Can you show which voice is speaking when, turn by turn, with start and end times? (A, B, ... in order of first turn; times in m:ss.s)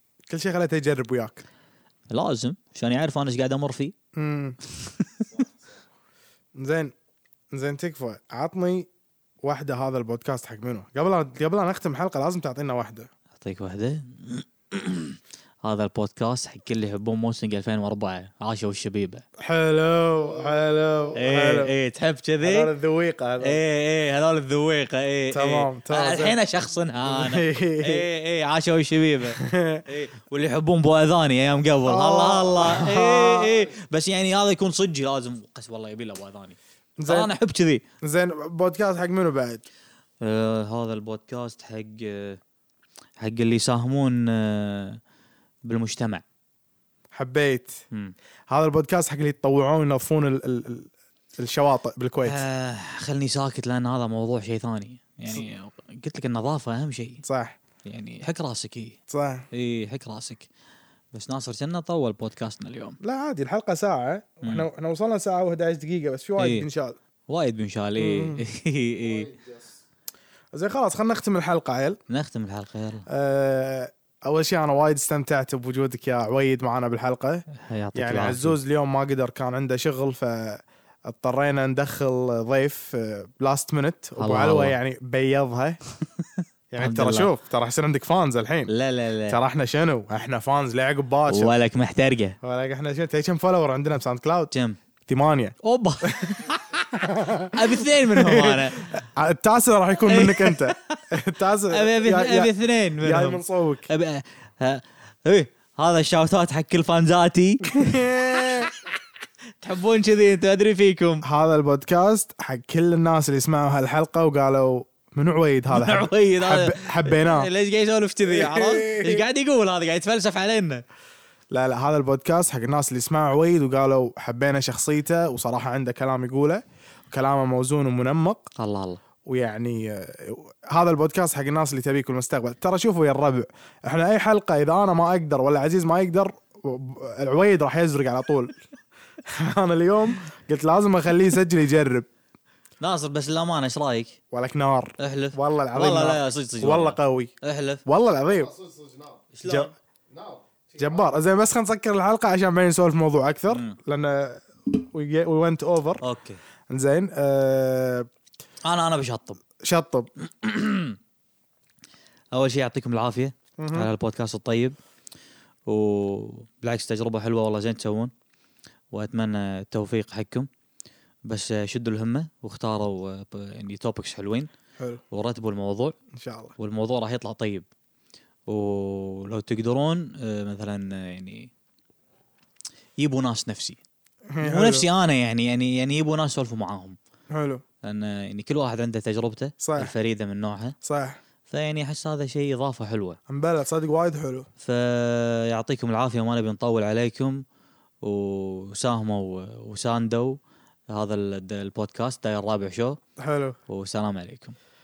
0:00.3-0:01.4 A
0:02.1-0:04.0 B
0:04.2-0:04.6 A
0:04.8-0:05.2 B
0:05.2-0:05.8 C
0:06.6-0:06.9 A
0:07.5-0:08.9 A
0:09.4-0:13.1 A
0:13.4-0:19.2 B
0:19.4-0:21.7 A
0:20.1-0:21.2 C
0:21.2-0:22.7 B
0:22.4-0:23.6 A
0:23.4-0:37.8 B
0:25.3-0:26.4 A
0:27.0-0:28.1 A
0:29.4-0:29.8 A
0:31.9-0:33.5 A
0:32.8-0:33.8 C
0:37.0-0:37.3 A
0:38.0-0:39.6 A
0:40.2-0:42.4 B
0:43.2-0:45.0 B
0:45.6-0:46.2 B
0:47.1-0:47.8 A
0:48.5-0:52.4 A
0:52.2-0:57.2 B
0:57.2-0:57.6 A
0:57.8-0:59.0 B
0:59.1-0:59.5 A
0:59.5-1:00.5 B
1:01.1-1:03.0 B
1:03.0-1:07.0 A
1:06.4-1:06.7 B
1:07.3-1:09.3 B
1:08.0-1:08.4 A
1:09.0-1:09.8 C
1:10.5-1:12.0 A
1:12.1-1:13.1 B
1:13.1-1:25.8 A
1:17.6-1:18.6 B
1:24.2-1:24.8 B
1:26.2-1:27.3 B
1:26.7-1:28.7 A
1:28.7-1:29.4 B
1:29.3-1:31.5 A
1:31.3-1:32.4 B
1:32.4-1:34.5 A
1:34.5-1:34.8 B
1:35.1-1:43.9 A
1:35.6-1:39.0 B
1:40.1-1:41.0 B
1:41.7-1:48.7 B
1:47.7-1:48.7 A
1:49.6-1:51.2 B
1:51.2-1:57.5 A
1:55.7-2:00.8 B
1:58.2-1:59.3 A
2:01.5-2:08.5 A
2:08.6-2:09.0 B
2:09.2-2:18.6 A
2:19.2-2:22.1 A
2:22.8-2:24.2 B
2:24.3-2:27.3 A
2:25.0-2:27.8 B
2:27.9-2:28.5 A
2:28.3-2:29.3 C
2:29.3-2:29.7 B
2:29.4-2:29.7 A
2:30.1-2:31.2 C
2:30.8-2:36.0 A
2:33.5-2:33.8 B
2:36.0-2:36.4 B
2:36.7-2:38.1 A
2:38.6-2:39.4 B
2:39.6-2:40.1 A
2:40.2-2:41.0 B
2:42.3-2:44.8 B
2:43.6-2:43.9 A
2:45.7-2:48.1 B
2:48.9-2:50.5 B
2:51.3-2:54.5 B
2:55.1-2:56.0 B
2:56.1-2:56.5 A
2:56.6-2:57.7 B
2:58.5-3:01.5 B
3:03.0-3:03.8 B
3:04.3-3:04.9 A
3:04.4-3:07.0 B
3:07.3-3:07.6 A
3:07.8-3:10.8 B
3:09.6-3:09.9 A
3:10.8-3:11.2 A
3:11.5-3:13.2 B
3:13.3-3:14.5 A
3:14.6-3:17.4 B
3:18.0-3:23.0 B
3:23.2-3:23.6 A
3:23.7-3:24.6 B